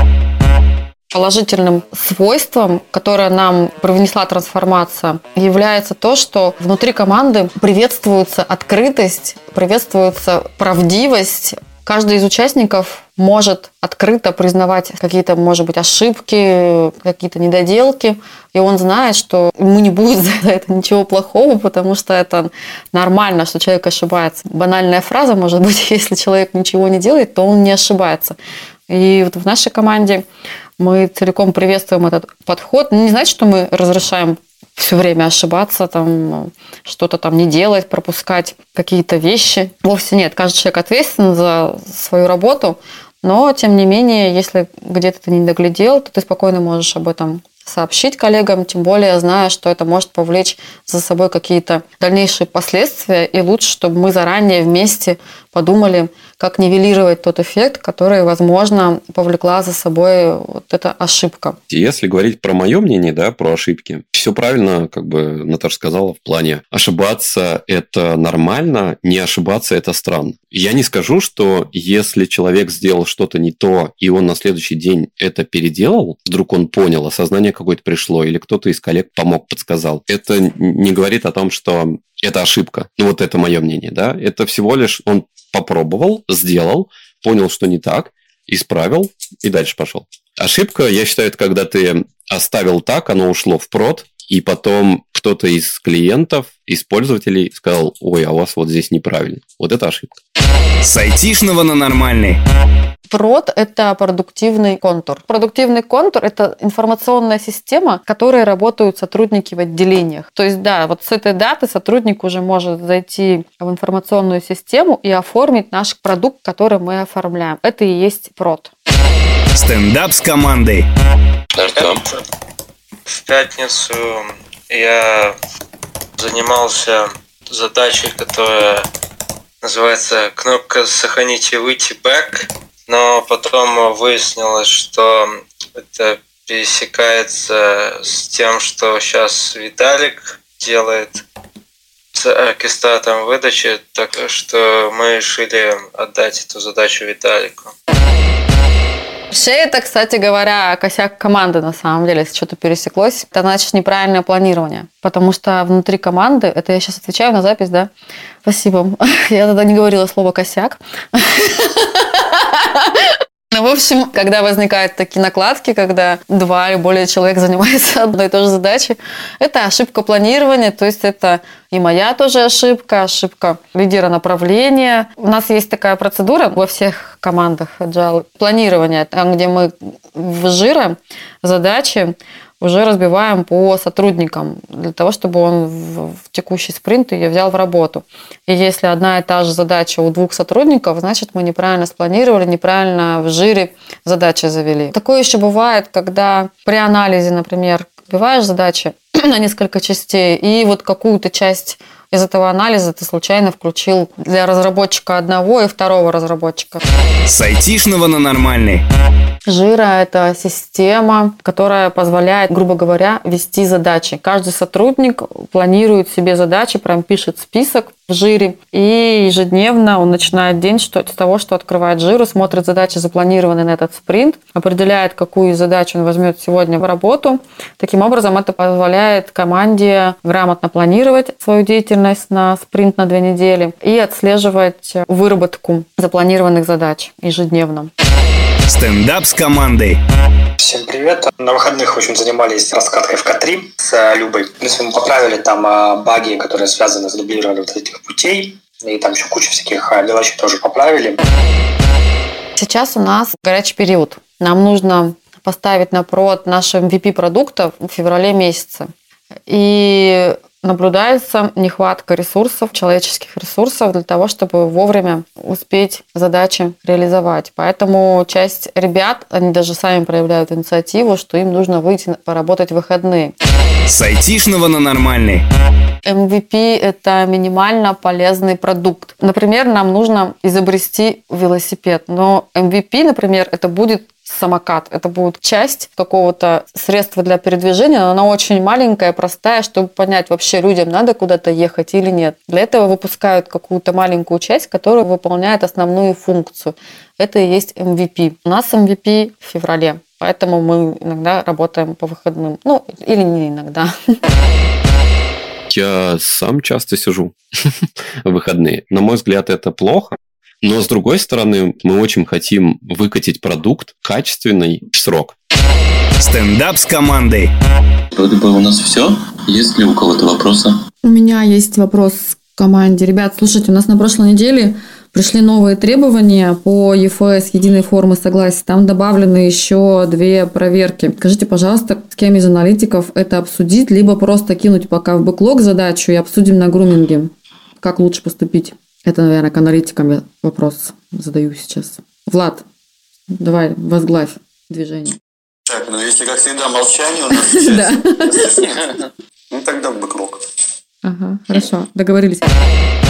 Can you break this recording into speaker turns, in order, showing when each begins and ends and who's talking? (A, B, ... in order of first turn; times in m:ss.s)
0:01.1-0:28.4 A
0:28.9-0:30.3 A
0:30.8-1:01.6 A
1:01.7-1:40.2 B
1:40.8-1:42.4 C
1:43.1-1:58.7 A
1:59.6-2:00.9 C
2:01.6-2:02.0 D
2:01.6-2:02.0 E
2:03.1-2:05.3 E
2:06.2-2:08.8 E
2:09.6-2:21.2 E
2:22.2-2:27.7 E
2:29.3-2:37.9 A
2:38.4-3:26.8 A
3:27.3-3:28.8 C
3:29.5-3:57.9 A
3:58.7-4:00.0 C
4:00.6-4:11.2 F
4:12.6-4:18.9 A
4:19.5-4:33.4 A
4:33.9-4:35.4 C
4:36.0-5:04.2 A
5:05.7-5:07.4 B
5:08.2-5:15.4 B
5:16.2-5:17.5 C
5:18.1-5:20.8 D
5:21.0-5:42.6 A
5:43.4-5:45.2 A
5:45.7-5:48.7 G
5:47.3-5:48.6 A
5:49.5-5:50.4 G
5:51.0-5:52.5 A